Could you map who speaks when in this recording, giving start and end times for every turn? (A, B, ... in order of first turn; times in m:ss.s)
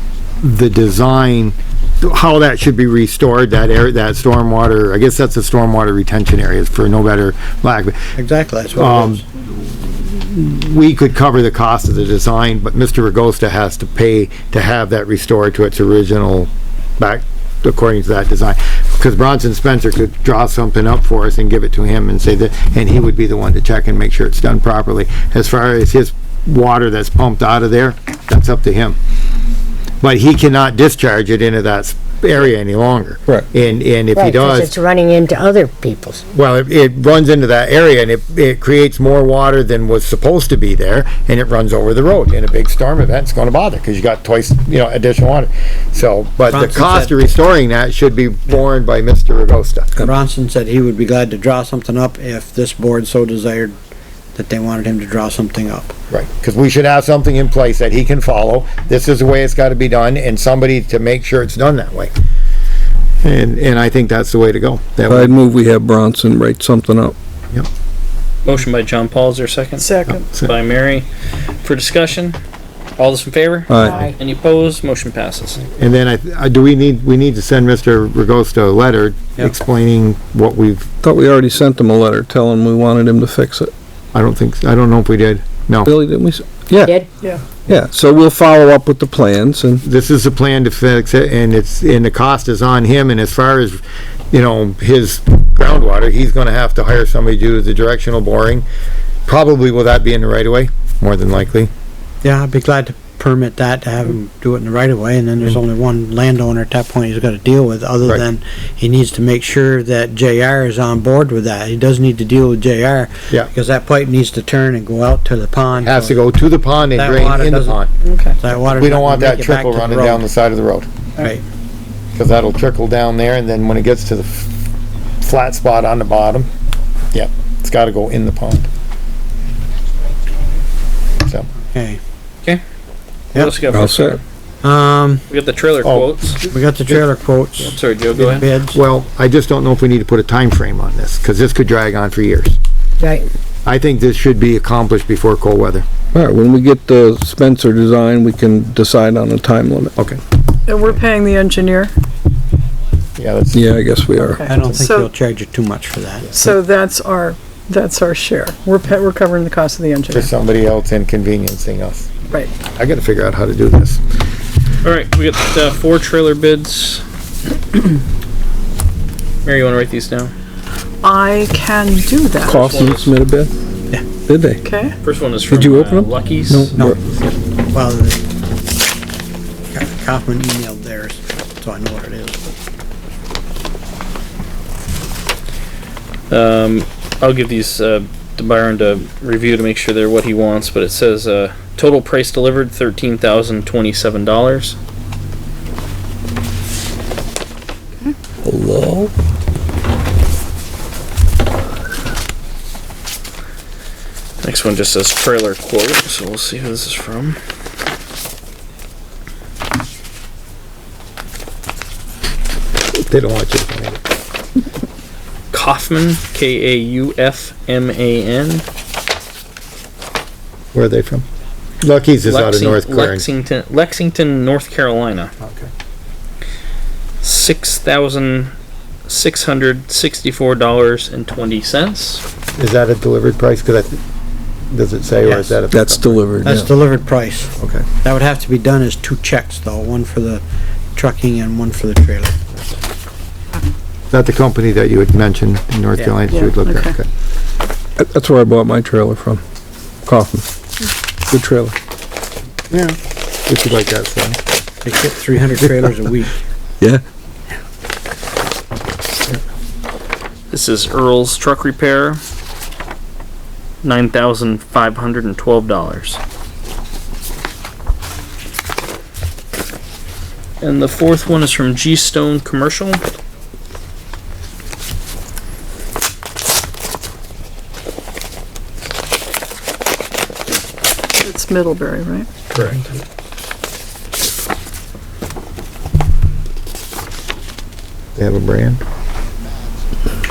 0:00.4-0:08.0 A
0:08.2-0:09.2 B
0:08.7-0:09.2 A
0:09.8-0:29.0 A
0:30.0-0:34.7 A
0:34.1-0:36.2 C
0:36.3-0:50.0 A
0:46.5-0:47.2 B
0:50.0-0:53.8 B
0:54.3-0:55.9 B
0:56.1-1:02.1 A
1:03.2-1:05.4 A
1:05.1-1:07.1 D
1:08.4-1:11.1 E
1:09.8-1:10.3 F
1:10.2-1:10.5 A
1:11.6-1:12.4 E
1:13.0-1:15.6 E
1:13.7-1:14.0 D
1:13.8-1:14.1 C
1:15.8-1:20.9 A
1:21.0-1:23.7 D
1:24.1-1:25.9 A
1:25.8-1:26.9 D
1:26.8-1:27.1 C
1:27.7-1:29.8 D
1:29.8-1:33.8 A
1:34.3-1:38.6 A
1:39.2-1:41.7 A
1:42.2-1:56.3 B
1:55.8-1:57.9 A
1:56.9-1:57.8 B
1:58.0-1:58.4 F
1:58.4-2:00.2 B
1:58.7-2:00.9 A
2:01.2-2:01.4 B
2:02.1-2:04.5 A
2:05.2-2:06.5 A
2:07.1-2:08.7 A
2:11.7-2:12.0 B
2:13.3-2:14.2 E
2:13.7-2:14.2 D
2:14.6-2:15.2 B
2:15.3-2:16.4 E
2:15.8-2:17.0 A
2:16.5-2:18.8 B
2:17.7-2:18.5 E
2:18.7-2:22.6 A
2:23.0-2:23.3 C
2:23.6-2:25.8 A
2:26.1-2:29.9 D
2:30.7-2:31.9 F
2:33.2-2:33.7 A
2:33.5-2:34.4 D
2:34.2-2:35.1 F
2:34.4-2:36.5 B
2:36.3-2:40.3 F
2:40.1-2:42.1 A
2:42.7-2:44.0 A
2:44.8-2:47.0 E
2:49.4-2:50.3 E
2:51.0-2:52.7 F
2:52.4-2:53.5 D
2:52.6-2:53.1 E
2:54.2-2:54.6 D
2:54.6-2:55.0 F
2:55.0-2:56.7 E
2:55.5-2:57.0 D
2:57.7-2:58.2 B
2:59.7-3:02.5 B
3:06.3-3:14.8 E
3:18.4-3:19.1 D
3:24.4-3:27.4 E
3:33.0-3:34.0 A
3:35.5-3:38.6 E
3:40.7-3:41.2 A
3:41.8-3:43.3 A
3:42.2-3:45.3 E
3:45.4-3:45.7 A
3:47.2-3:48.5 E
3:49.0-3:52.2 E
3:52.6-3:54.0 A
3:54.6-3:56.2 A
3:55.2-3:55.6 B
3:55.7-3:56.7 D
3:56.4-4:00.4 B
3:57.6-3:57.8 A
4:00.9-4:02.6 B
4:04.1-4:07.1 A
4:06.3-4:06.9 F
4:08.0-4:09.4 D
4:10.0-4:10.4 D
4:11.3-4:11.8 D
4:13.5-4:14.4 A
4:14.8-4:16.4 B
4:20.5-4:22.2 E
4:23.8-4:26.2 E
4:30.6-4:33.0 E
4:41.2-4:42.3 F
4:42.5-4:42.9 A
4:48.2-4:48.8 A